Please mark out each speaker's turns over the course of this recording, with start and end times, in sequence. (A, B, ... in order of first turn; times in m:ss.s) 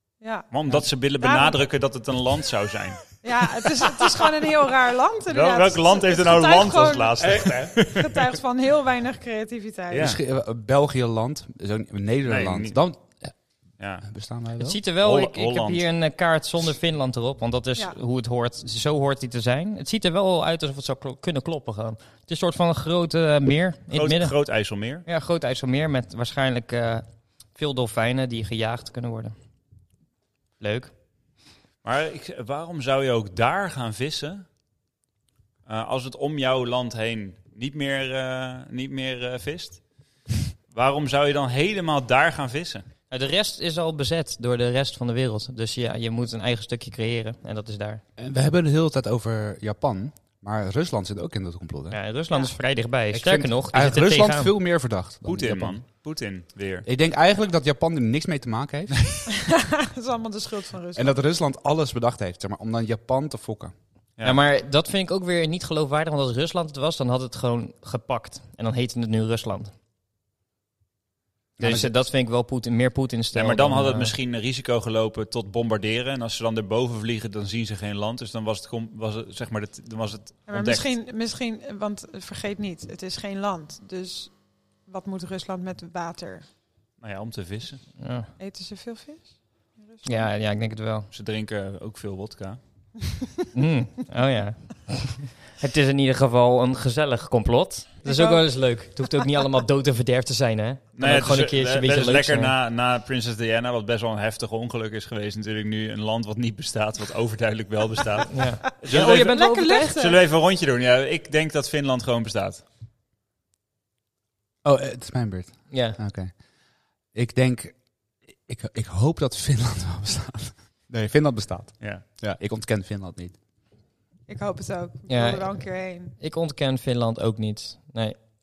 0:00.2-0:00.5 A
0:00.5-0:04.0 B
0:01.2-0:01.6 A
0:03.2-0:10.1 A
0:05.3-0:08.3 B
0:07.3-0:07.7 C
0:09.9-0:10.2 B
0:09.9-0:13.4 C
0:12.3-0:12.8 B
0:13.8-0:14.0 B
0:14.0-0:14.8 C
0:14.6-0:24.4 D
0:15.0-0:15.9 B
0:23.9-0:25.1 B
0:25.1-0:29.3 D
0:30.6-0:30.9 D
0:31.8-0:34.4 B
0:35.7-0:39.8 B
0:40.7-0:42.9 B
0:43.1-0:48.0 D
0:48.2-0:52.0 C
0:51.9-0:54.5 D
0:53.1-0:55.8 C
0:55.3-0:56.9 B
0:56.8-0:59.2 C
0:59.3-1:01.1 A
1:01.0-1:03.7 C
1:04.2-1:04.4 B
1:04.2-1:09.7 D
1:11.6-1:11.9 C
1:11.6-1:14.2 D
1:13.3-1:20.9 B
1:20.5-1:26.4 A
1:27.0-1:27.9 B
1:28.0-1:28.3 D
1:28.4-1:30.3 A
1:30.0-1:31.1 D
1:31.1-1:32.6 B
1:33.5-1:42.6 D
1:38.0-1:38.5 A
1:41.0-1:49.3 B
1:48.3-1:49.9 D
1:48.8-1:50.2 A
1:49.8-1:52.6 B
1:54.6-1:56.5 C
1:55.7-1:56.0 D
1:57.1-2:03.4 C
2:04.3-2:06.2 A
2:05.1-2:08.2 D